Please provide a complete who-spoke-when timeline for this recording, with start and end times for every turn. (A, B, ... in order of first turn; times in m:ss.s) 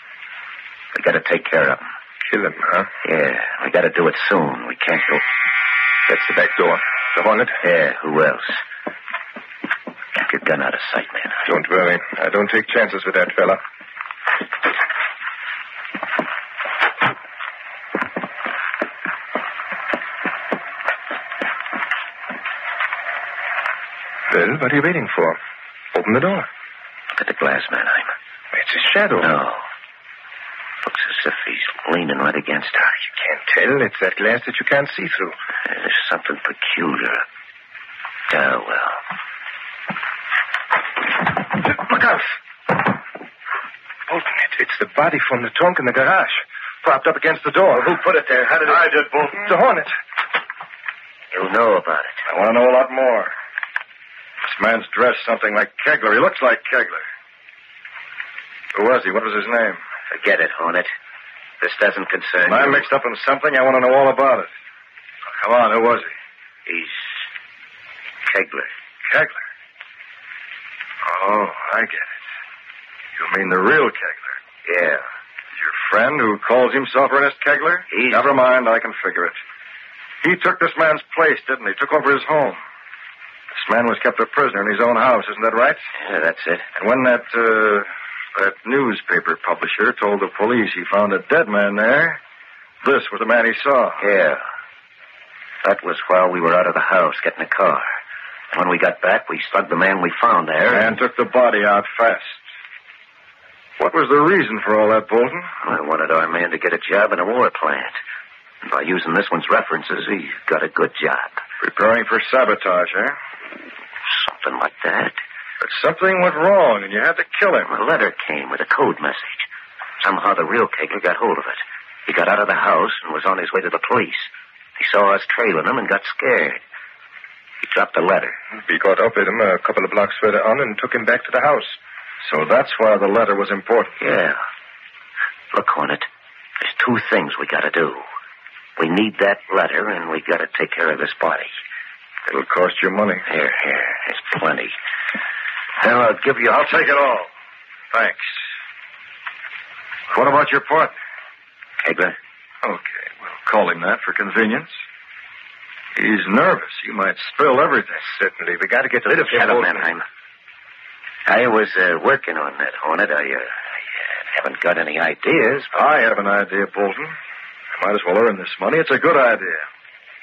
0:00.9-0:01.9 A
0:02.3-0:02.9 B
0:03.0-0:05.2 A
0:06.1-0:07.6 B
0:07.6-0:08.6 A
0:10.2-0:11.4 A
0:11.4-0:13.6 B
0:24.3-0:25.4 B
0:25.9-0:26.5 B
0:27.1-0:28.1 A
0:28.5-0:29.3 B
0:29.2-0:29.6 A
0:30.8-0:33.0 A
0:33.1-0:35.4 B
0:35.6-0:37.2 A
0:38.3-0:39.0 A
0:41.7-0:42.2 B
0:44.1-0:46.9 B
0:46.9-0:47.9 C
0:48.0-0:48.7 A
0:48.6-0:49.4 C
0:49.4-0:49.9 B
0:51.3-0:52.2 A
0:52.2-0:53.3 C
0:54.4-0:57.0 C
0:58.7-0:59.8 C
1:00.1-1:00.9 A
1:01.6-1:02.9 A
1:02.4-1:04.5 C
1:05.3-1:06.1 C
1:06.6-1:07.3 A
1:08.2-1:08.7 A
1:09.1-1:09.4 C
1:11.0-1:12.1 C
1:13.2-1:14.4 C
1:14.6-1:15.0 A
1:15.6-1:19.4 C
1:17.9-1:18.3 A
1:20.2-1:22.6 C
1:23.5-1:25.8 C
1:26.0-1:26.7 A
1:26.7-1:32.2 C
1:32.8-1:34.0 C
1:34.0-1:34.4 A
1:35.6-1:38.0 A
1:38.5-1:41.0 A
1:40.7-1:42.4 C
1:43.8-1:45.5 C
1:45.6-1:48.0 A
1:48.6-1:51.4 A
1:51.6-1:53.2 C
1:54.1-1:55.2 A
1:55.6-1:57.7 C
1:57.7-1:59.5 A
2:00.0-2:06.6 A
2:07.6-2:08.4 A
2:08.6-2:11.8 B
2:12.2-2:14.0 C
2:14.0-2:14.4 A
2:15.5-2:16.1 A
2:16.6-2:18.0 A
2:18.8-2:21.5 A
2:22.3-2:23.2 C
2:23.3-2:24.7 A
2:25.8-2:26.6 A
2:26.4-2:27.3 C
2:27.9-2:28.4 C
2:30.1-2:30.9 C
2:31.8-2:32.2 A
2:32.6-2:34.7 C
2:36.0-2:38.1 C
2:38.2-2:39.0 B
2:39.0-2:40.0 A
2:39.1-2:39.6 C
2:41.2-2:45.8 A
2:45.7-2:47.1 C
2:47.7-2:49.6 C